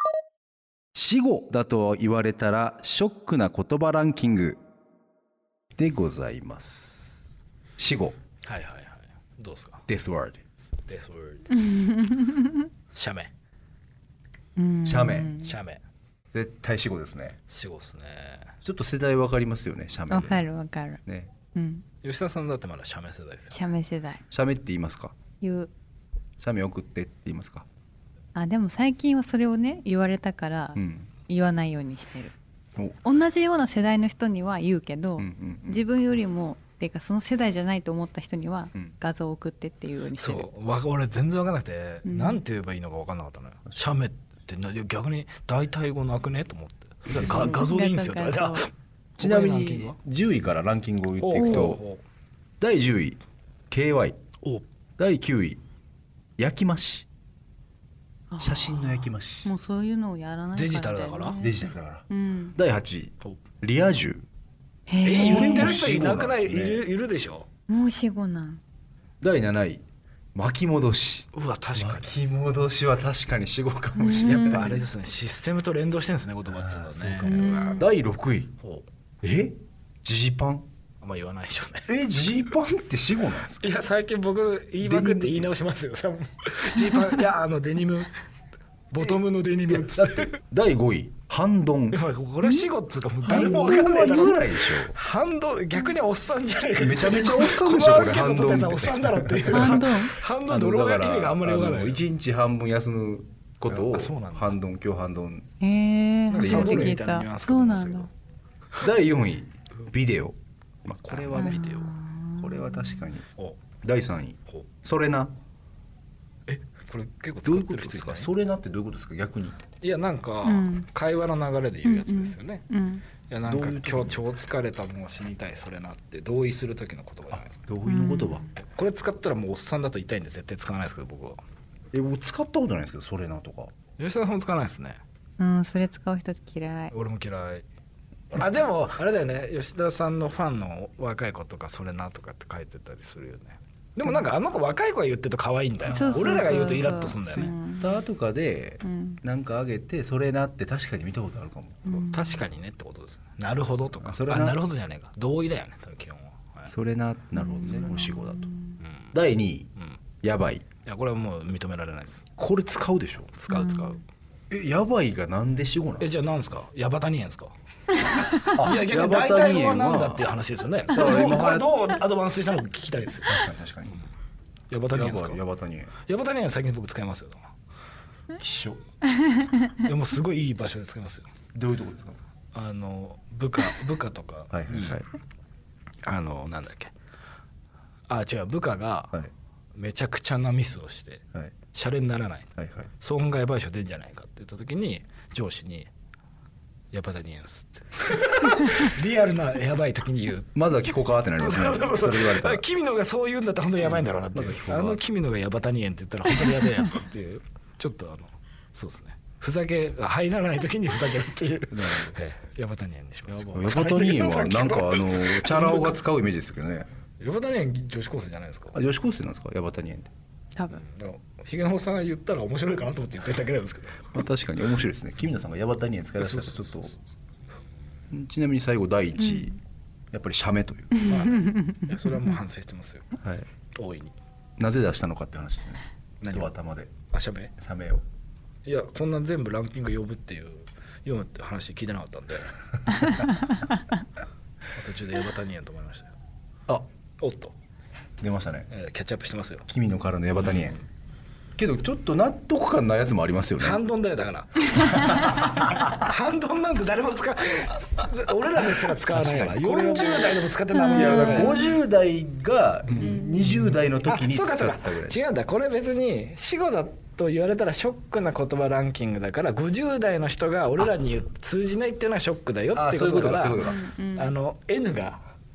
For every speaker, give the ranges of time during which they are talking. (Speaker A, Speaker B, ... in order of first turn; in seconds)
Speaker A: 0.9-4.6, 5.8-7.2, 7.8-8.2, 9.9-10.4, 14.8-15.4, 16.3-17.4, 18.6-20.5, 21.1-21.3, 24.3-25.1, 26.4-27.6, 30.8-31.1, 35.2-35.9, 47.1-47.5, 49.2-51.8, 52.6-53.2, 53.7-54.2, 55.0-55.6, 56.4-57.1, 58.4-59.5, 61.4-64.2, 65.1-66.8, 69.2-69.8, 70.3-74.8, 76.5-78.5, 79.2-80.7, 81.9-83.7, 84.8-85.5, 89.0-92.0, 93.3-95.0, 96.7-105.5, 106.4-107.0, 108.8-111.7, 112.4-113.3, 113.8-115.3, 117.4-119.7, 123.4-124.2, 127.3-128.5, 131.9-133.7, 145.9-152.0, 154.0-154.6, 156.7-158.5, 159.1-159.7, 160.2-160.7, 162.4-163.3, 164.5-166.1, 168.4-170.3, 170.9-171.8, 173.2-174.0, 174.9-175.9, 178.4-178.8, 181.5-182.2, 184.5-185.1, 192.6-192.9, 200.5-202.6, 203.8-205.0, 211.7-212.2, 213.3-216.9, 218.7-220.1, 224.1-226.9, 228.1-229.5, 230.1-231.0, 233.2-233.4, 234.6-237.0, 237.6-238.0, 248.2-248.7, 249.7-250.8, 251.6-253.8, 254.9-255.9, 259.1-265.2, 272.7-273.8
Speaker B: 8.4-9.8, 10.8-11.5, 12.9-13.3, 15.4-15.8, 17.5-18.5, 22.0-23.6, 40.2-50.0, 51.2-52.0, 60.5-61.4, 65.0-67.5, 71.3-72.1, 74.2-77.9, 78.6-78.8, 81.0-81.9, 83.4-88.1, 88.9-90.4, 91.9-102.0, 103.6-104.6, 106.3-108.1, 111.1-112.0, 116.5-118.3, 119.8-122.7, 123.2-127.5, 128.6-131.4, 134.0-135.0, 136.9-137.6, 138.3-147.5, 152.1-156.7, 158.8-159.1, 160.8-162.2, 163.4-164.0, 166.0-173.5, 174.7-175.4, 176.0-177.4, 179.7-181.3, 182.5-185.0, 186.0-186.9, 188.1-189.2, 189.7-195.9, 196.9-200.5, 201.4-216.0, 217.2-218.8, 220.7-224.1, 226.2-227.0, 231.0-233.2, 233.7-234.1, 236.2-236.5, 237.1-237.5, 238.6-243.3, 244.7-246.1, 247.2-247.6, 248.7-249.7, 250.4-250.8, 253.6-261.7, 263.5-275.2
Speaker C: 11.5-12.7, 14.6-15.5, 20.1-21.0, 21.5-21.8, 23.5-24.2, 25.4-25.7, 28.3-32.3, 33.0-40.5, 42.0-42.4, 47.2-48.7, 51.4-51.7, 58.3-62.5, 64.9-65.8, 67.7-68.6, 74.0-74.8, 77.2-77.9, 92.4-92.7, 93.3-93.6, 99.5-100.1, 105.6-108.1, 111.3-113.1, 120.4-120.9, 121.8-123.0, 127.8-128.5, 135.4-136.9, 145.9-148.0, 148.8-149.2, 151.8-152.4, 157.3-158.8, 163.5-164.0, 168.1-168.5, 179.1-179.7, 220.5-220.8, 229.2-229.5, 230.9-231.9, 243.2-243.8, 260.7-261.8, 263.0-263.4, 273.6-274.3